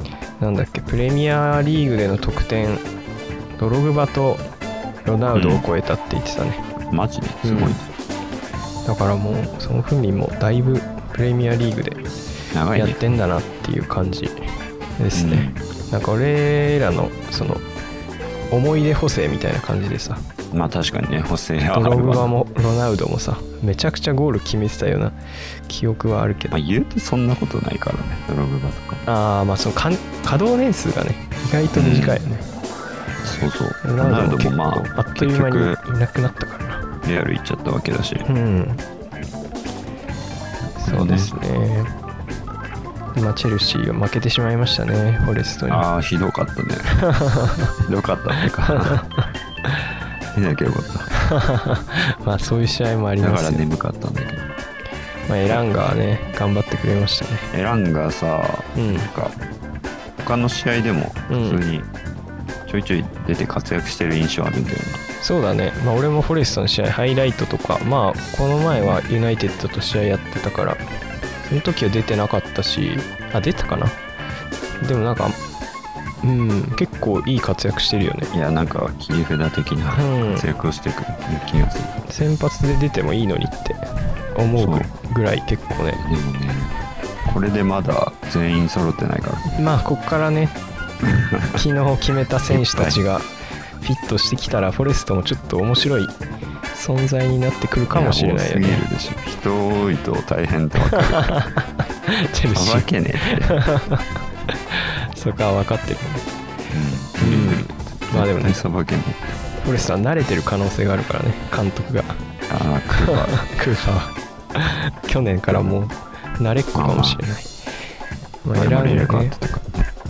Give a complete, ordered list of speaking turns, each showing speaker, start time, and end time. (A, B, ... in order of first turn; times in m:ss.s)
0:00.4-0:02.8 A
0:03.6-0:04.5 A
0:05.0-0:06.6 A
0:05.3-0:05.6 B
0:06.9-0:07.9 B
0:07.4-0:07.8 A
0:08.8-0:12.0 A
0:12.5-0:13.0 B
0:12.7-0:14.4 A
0:15.0-0:17.6 A
0:15.1-0:15.6 B
0:18.5-0:20.2 A
0:20.5-0:22.4 B
0:21.7-0:25.2 A
0:25.7-0:26.6 A
0:26.5-0:29.1 B
0:29.1-0:32.4 A
0:31.7-0:32.2 B
0:33.2-0:35.8 B
0:33.8-0:36.9 A
0:37.0-0:38.3 B
0:38.2-0:38.8 A
0:40.8-0:41.9 A
0:40.8-0:41.4 B
0:43.2-0:45.9 A
0:45.7-0:46.9 B
0:46.9-0:47.7 A
0:47.8-0:49.0 B
0:48.6-0:49.3 A
0:50.3-0:51.1 B
0:51.1-0:53.6 A
0:53.2-0:54.5 B
0:55.3-0:57.5 A
0:57.5-0:59.3 B
0:58.8-0:59.1 A
1:00.2-1:01.9 B
1:01.3-1:01.6 A
1:02.7-1:05.0 B
1:05.2-1:10.8 A
1:08.7-1:09.0 B
1:11.4-1:14.0 A
1:14.8-1:15.4 A
1:16.2-1:18.3 A
1:18.3-1:22.0 B
1:19.9-1:20.4 A
1:22.1-1:23.8 A
1:24.4-1:26.0 A
1:24.6-1:24.9 B
1:26.0-1:26.7 B
1:27.3-1:29.4 B
1:29.5-1:30.6 A
1:31.0-1:31.6 B
1:31.6-1:33.3 A
1:32.5-1:33.0 B
1:33.8-1:36.1 A
1:36.7-1:38.8 A
1:37.9-1:41.3 B
1:40.8-1:46.2 A
1:42.5-1:43.6 B
1:46.7-1:49.3 B
1:47.2-1:48.7 A
1:49.6-1:52.2 A
1:52.5-1:53.3 B
1:52.9-1:57.5 A
1:55.5-1:55.8 B
1:56.8-1:57.2 B
1:58.4-1:59.5 A
1:58.6-1:59.9 B